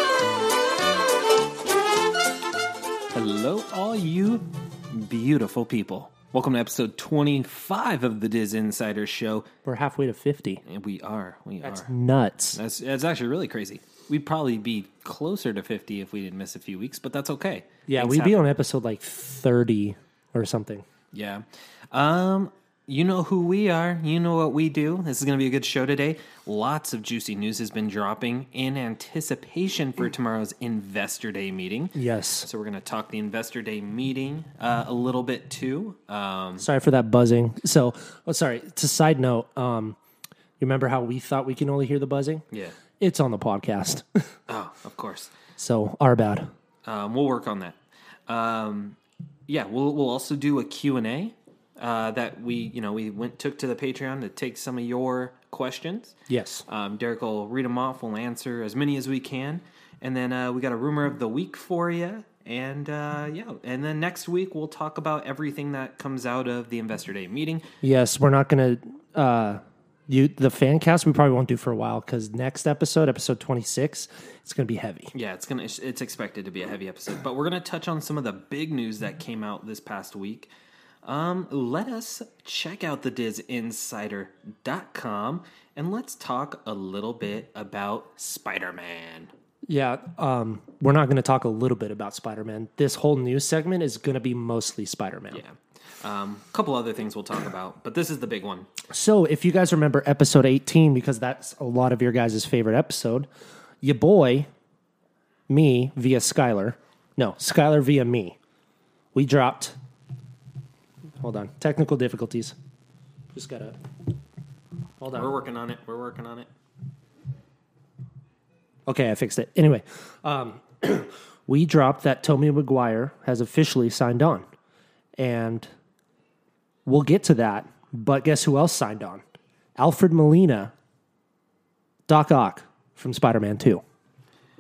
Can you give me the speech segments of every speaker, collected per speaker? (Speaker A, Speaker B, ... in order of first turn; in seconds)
Speaker A: 3.1-9.5, 10.6-11.9, 12.5-18.4, 21.1-36.6, 42.5-42.8, 44.5-45.3, 46.8-49.0, 49.5-67.6, 75.1-80.5, 81.0-89.3, 95.3-98.7, 115.1-116.5
Speaker B: 9.6-10.6, 11.6-12.6, 17.9-20.8, 31.9-32.5, 36.6-40.0, 40.6-42.4, 43.0-44.2, 45.6-46.5, 56.3-56.6, 67.8-75.1, 89.7-95.4, 98.9-103.3, 103.8-104.5, 105.5-108.3, 109.1-109.8, 111.2-112.5, 113.3-113.8, 115.0-115.3, 118.9-124.4, 125.2-125.7, 126.8-129.2, 129.8-130.7, 132.1-133.8